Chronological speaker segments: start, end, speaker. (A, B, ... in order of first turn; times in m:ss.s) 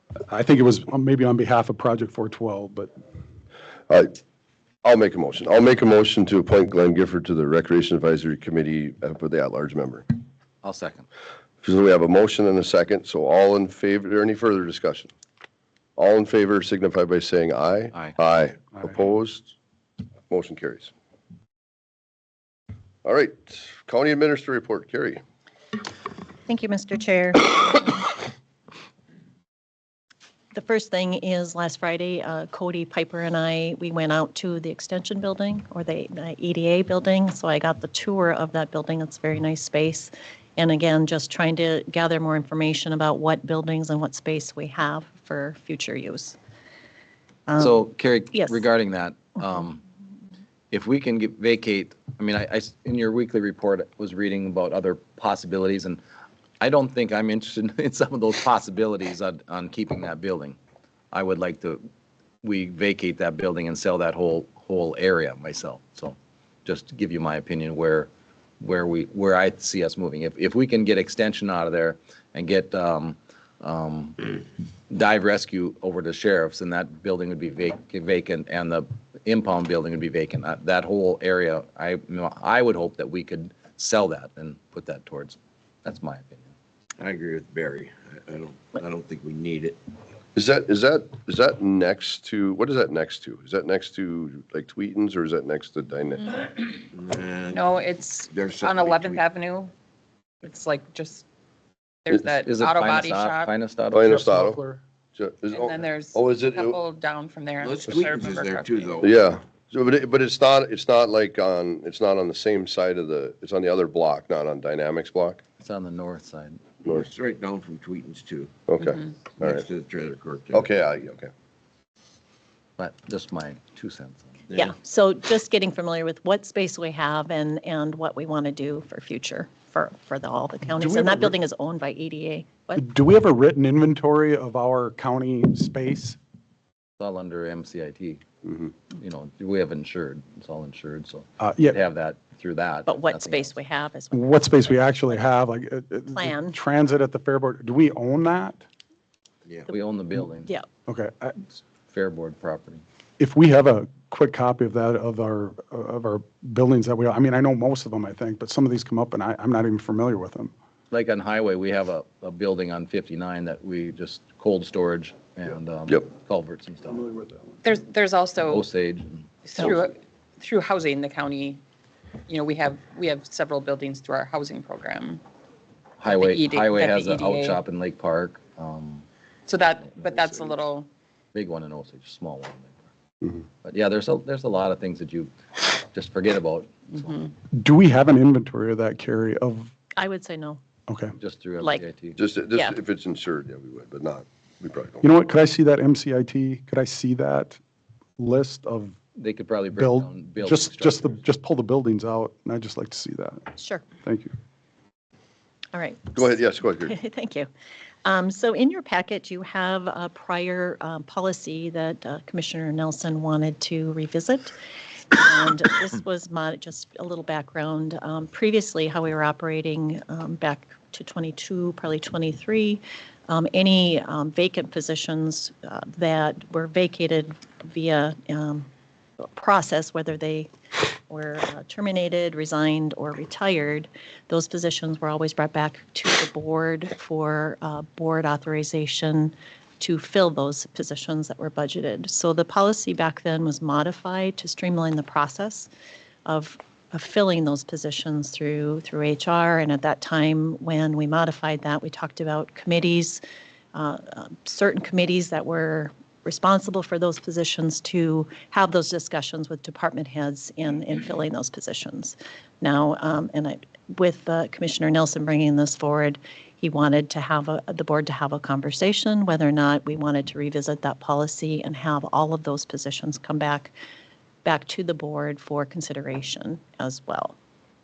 0:00.3-0:02.9 A
0:03.9-0:04.2 B
0:04.8-0:10.1 B
0:10.6-0:11.1 C
0:11.6-0:15.1 B
0:16.0-0:19.5 B
0:20.3-0:20.9 B
0:23.0-0:25.2 B
0:26.5-0:28.2 D
0:30.5-0:46.4 D
0:47.5-0:47.8 D
0:47.6-0:49.8 C
0:48.3-0:48.6 D
0:50.7-0:56.0 C
0:56.6-1:00.6 C
1:01.1-1:01.8 C
1:02.4-1:14.2 C
1:14.9-1:26.5 C
1:27.0-1:29.8 E
1:30.4-1:36.6 B
1:36.9-1:37.7 E
1:37.5-1:39.7 F
1:38.3-1:39.2 E
1:40.4-1:41.2 F
1:42.0-1:43.5 F
1:42.4-1:44.2 C
1:43.9-1:44.6 B
1:44.0-1:44.8 A
1:45.2-1:46.8 B
1:45.5-1:49.0 F
1:47.6-1:49.2 E
1:49.0-1:55.4 B
1:55.6-1:56.6 C
1:56.9-1:58.6 E
1:58.7-1:59.7 B
1:59.4-2:00.7 E
2:00.5-2:01.3 B
2:02.8-2:04.3 C
2:04.5-2:12.8 D
2:10.8-2:11.3 A
2:12.8-2:16.2 A
2:17.0-2:18.2 C
2:19.0-2:23.6 C
2:21.4-2:21.8 A
2:22.9-2:25.2 D
2:24.1-2:28.6 A
2:26.2-2:26.6 D
2:29.7-2:30.5 C
2:30.9-2:31.4 A
2:31.9-2:32.8 C
2:33.2-2:40.5 A
2:40.9-2:47.1 C
2:47.0-2:47.5 A
2:47.6-2:48.7 F
2:48.4-2:49.7 C
2:49.4-2:51.6 F
2:52.3-2:55.2 F
2:56.0-2:59.0 C
2:56.0-2:57.6 F
2:59.5-3:00.9 F
2:59.9-3:00.4 C
3:01.3-3:02.8 C
3:03.6-3:07.3 C
3:07.5-3:09.7 A
3:10.0-3:10.6 D
3:10.9-3:11.2 A
3:11.2-3:12.2 C
3:12.2-3:15.0 B
3:15.0-3:17.6 A
3:18.2-3:19.0 A
3:19.2-3:21.2 C
3:19.7-3:24.3 A
3:23.6-3:23.9 D
3:25.7-3:27.5 D
3:26.2-3:27.0 B
3:28.0-3:34.5 D
3:35.1-3:48.7 D
3:49.4-3:50.5 D
3:51.1-4:05.7 D
4:06.3-4:13.2 D
4:13.7-4:33.7 D
4:34.4-4:37.3 D